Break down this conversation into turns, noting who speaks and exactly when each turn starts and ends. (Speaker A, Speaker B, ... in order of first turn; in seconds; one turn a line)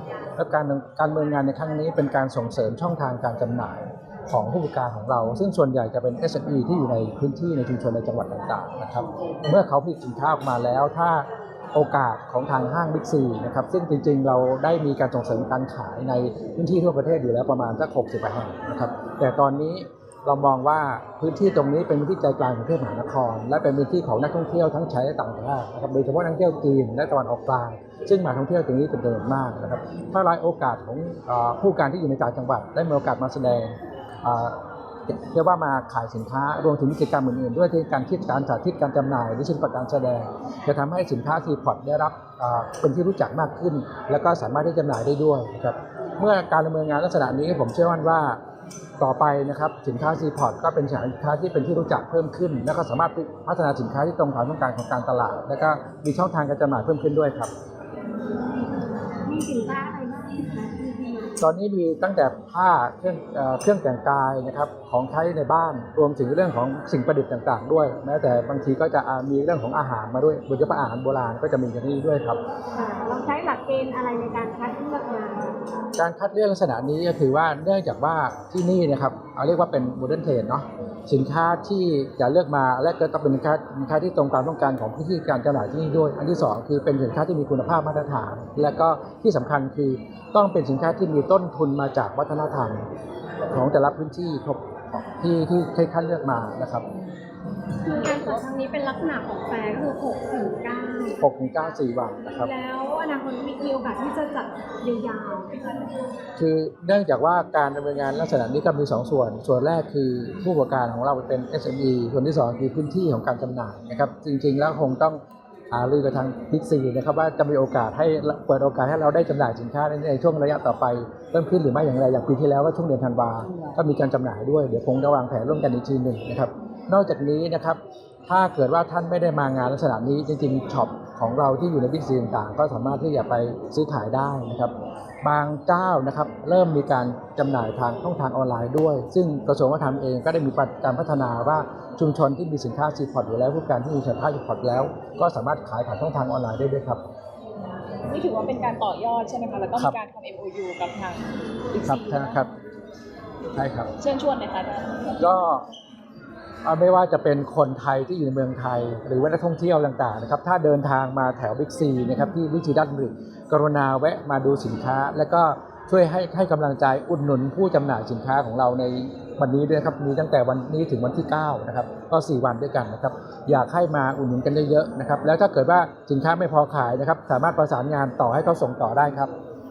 Speaker A: 0.4-48.4
Speaker A: 49.0-57.5
Speaker B: 59.2-61.4
Speaker A: 61.4-72.4
Speaker B: 72.7-75.5
Speaker A: 76.0-92.8
Speaker A: 93.5-96.8
Speaker B: 97.8-101.6
Speaker C: 97.9-98.4
Speaker A: 101.2-102.5
Speaker B: 102.2-106.0
Speaker A: 106.4-115.2
Speaker A: 115.7-147.0
Speaker C: 148.0-152.4
Speaker A: 151.8-152.5
Speaker A: 153.5-153.9
Speaker C: 154.0-155.3
Speaker A: 155.2-155.7
Speaker A: 156.6-179.3